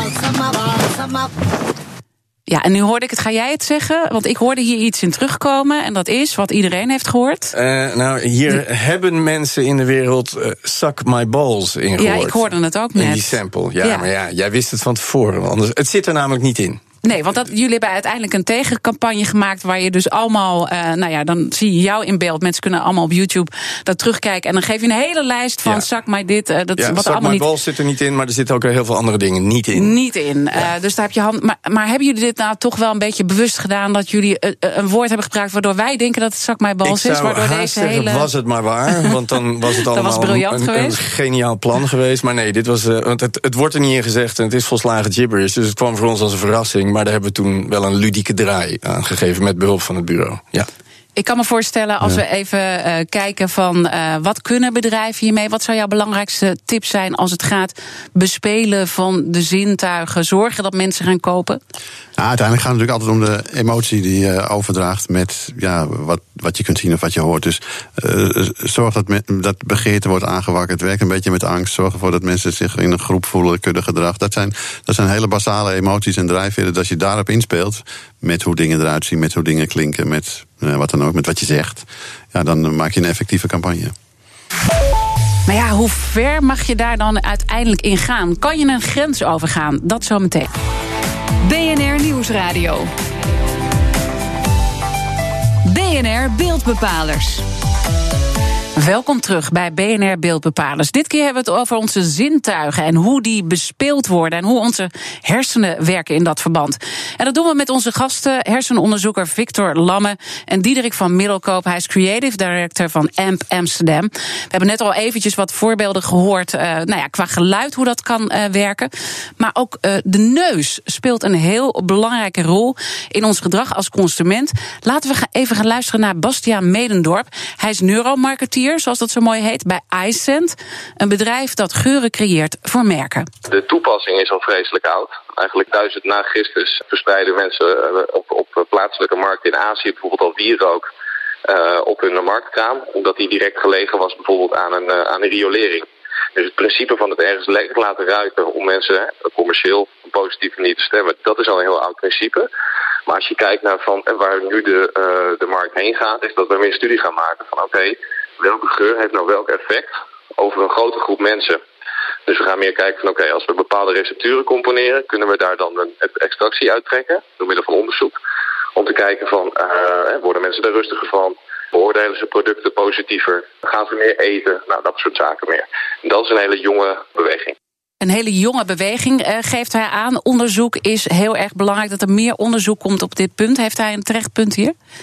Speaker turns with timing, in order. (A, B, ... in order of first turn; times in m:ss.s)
0:02.5-0:07.5 A
0:07.5-0:16.8 B
0:12.0-0:14.1 A
0:17.0-0:27.5 A
0:26.8-0:30.0 B
0:29.7-0:38.3 A
0:36.8-0:50.7 B
0:39.9-0:41.0 A
0:51.2-1:01.6 A
1:02.2-1:23.9 C
1:25.5-1:30.5 A
1:31.4-1:32.9 D
1:35.6-1:37.4 D
1:38.8-2:13.3 A
2:13.5-2:20.9 E
2:21.4-2:32.5 E
2:33.1-2:41.6 E
2:42.3-2:48.2 E
2:48.8-2:57.6 E
2:58.0-3:04.7 A